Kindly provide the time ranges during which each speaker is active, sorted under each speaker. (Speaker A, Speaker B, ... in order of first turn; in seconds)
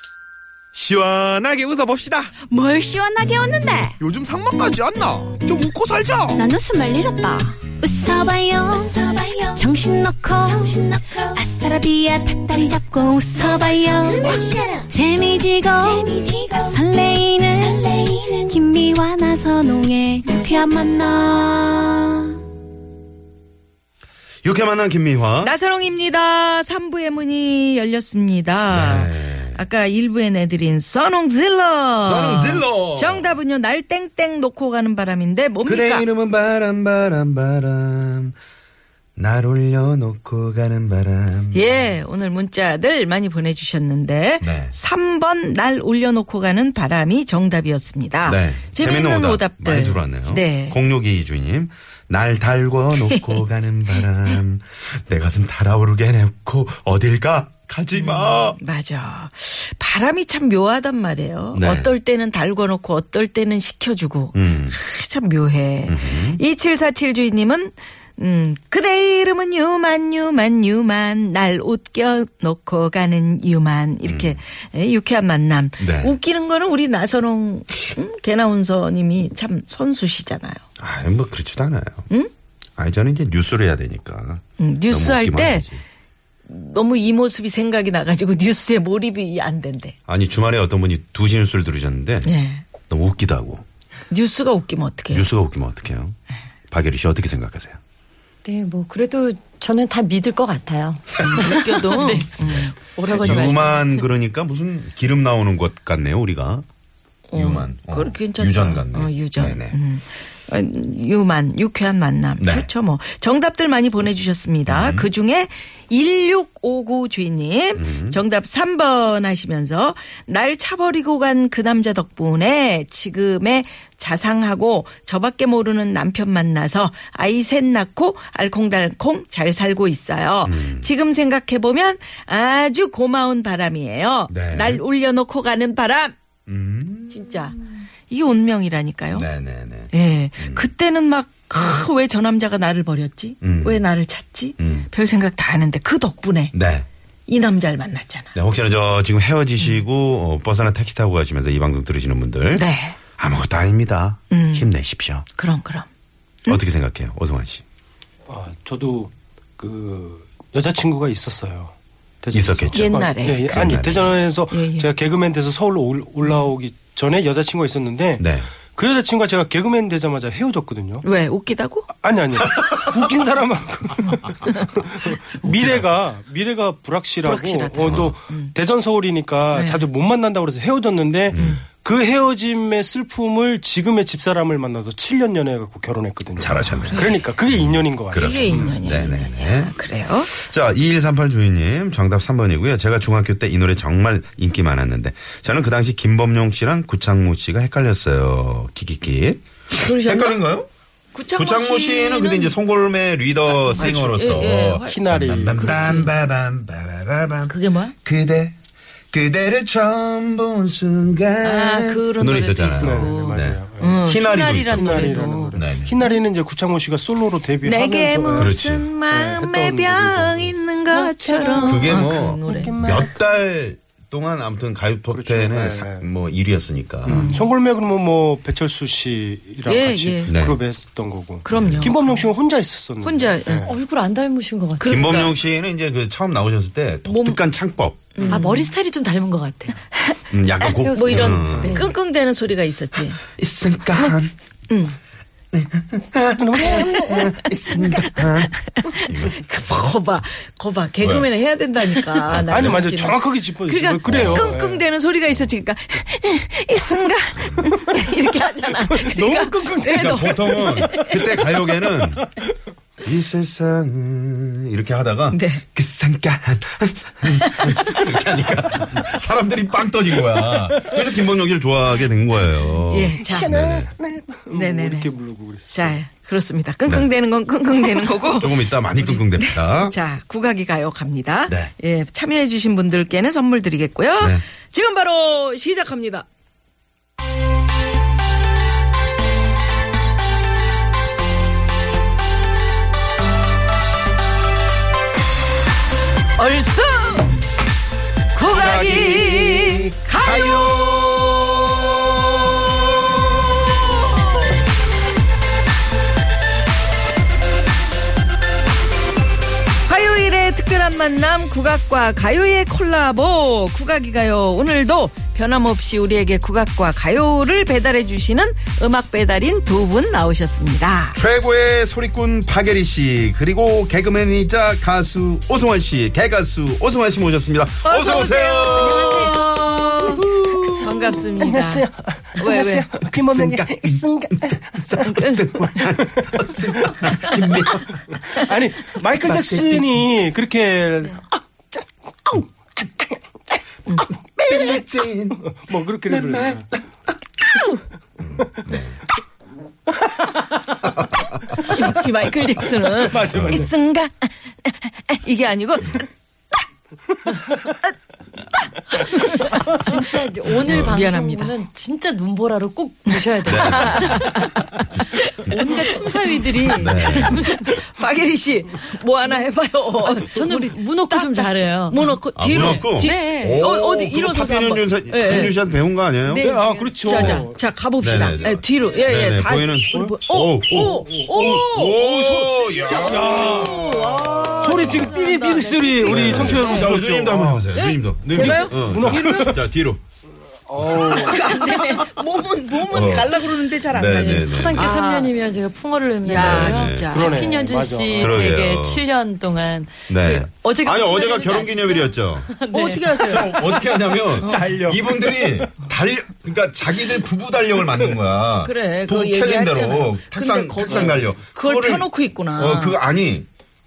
Speaker A: 0.7-2.4, 4.0-6.4
Speaker B: 2.4-4.0, 6.3-22.4
Speaker C: 24.4-25.5, 28.7-29.6, 32.0-33.3, 35.6-38.3, 39.1-41.9, 44.4-44.7, 48.2-58.6, 61.5-61.9, 64.3-64.8, 65.9-66.4, 74.0-74.4, 75.8-76.2, 80.8-82.1, 82.8-85.8, 90.1-92.3, 92.9-93.6, 95.1-96.2, 96.7-97.8, 101.2-101.6, 102.4-106.6, 107.3-109.8, 112.4-112.7, 114.7-115.1, 117.7-118.2, 130.4-130.9, 134.3-134.8, 136.5-137.5, 139.1-140.7, 143.4-143.8, 144.6-144.9, 146.5-146.9, 148.3-152.7, 153.2-155.2, 156.4-157.6, 162.3-164.2, 168.2-168.5, 175.5-175.8, 177.8-178.2, 181.3-181.6, 186.4-189.8, 190.3-200.7, 201.3-208.6, 209.1-215.9, 218.3-218.9, 221.6-227.3, 230.3-230.6, 231.5-231.9, 234.8-238.3, 240.3-241.9, 243.3-244.3, 245.5-249.4, 251.0-251.3, 252.2-252.8, 254.1-254.6, 257.4-257.7, 259.9-262.2, 263.0-273.9, 278.4-279.9, 284.2-284.4, 298.5-303.7, 321.1-331.0, 333.1-338.0, 339.1-340.1, 344.4-345.4, 346.1-346.8, 348.2-349.0, 353.3-353.7, 360.6-360.9, 363.5-364.4, 366.8-367.5, 372.3-376.5, 377.1-377.5, 378.0-385.1, 386.0-390.0, 390.8-392.0, 392.8-394.9, 396.4-397.1, 398.1-399.0, 400.1-402.5, 403.2-413.5
Speaker D: 25.4-36.0, 41.5-50.8, 53.1-53.4, 57.9-80.6, 84.6-85.7, 86.5-90.0, 92.2-92.7, 94.1-95.3, 101.2-103.8, 107.3-136.1, 137.1-137.6, 138.1-139.3, 139.9-146.6, 147.3-148.3, 152.5-152.9, 154.3-154.7, 155.3-155.9, 162.7-163.9, 164.5-164.9, 171.0-171.9, 177.2-178.5, 179.5-179.8, 181.3-181.6, 186.9-187.2, 188.1-190.3, 199.7-200.4, 201.1-202.6, 203.6-206.1, 207.5-207.9, 211.4-216.2, 217.6-223.0, 227.1-227.4, 229.7-230.4, 231.4-232.3, 233.0-233.7, 234.8-235.3, 237.1-237.4, 238.1-238.7, 240.8-243.3, 244.7-245.0, 247.8-261.2, 265.3-265.6, 267.4-268.1, 272.9-273.5, 274.5-275.1, 275.7-286.2, 296.4-297.3, 298.3-300.7, 309.9-321.2, 327.8-333.1, 335.0-335.9, 351.6-356.1, 358.6-360.0, 360.6-361.5, 363.1-366.0, 366.6-375.6, 377.0-387.0, 387.7-389.6, 391.0-395.3, 396.2-397.6, 402.7-403.5, 404.4-404.8, 408.6-413.0
Speaker E: 98.4-103.9, 233.6-235.2, 238.3-239.8, 240.6-241.9, 359.7-364.5, 365.4-367.6, 370.0-373.7, 376.2-377.3, 394.1-403.4
Speaker F: 158.3-171.0, 172.0-188.8, 203.8-205.9, 212.8-218.5, 219.1-223.1, 225.1-226.1, 227.1-233.7, 246.4-248.1, 252.5-254.8, 258.9-261.2, 273.4-273.8, 274.4-276.0, 328.9-329.3, 331.4-334.6, 336.1-337.1, 338.3-341.2, 344.5-344.8, 345.4-346.6, 353.0-353.7, 376.4-377.6, 380.7-383.9, 384.6-387.7, 388.3-389.6, 390.7-391.4, 397.1-398.4, 404.4-405.7, 410.9-411.1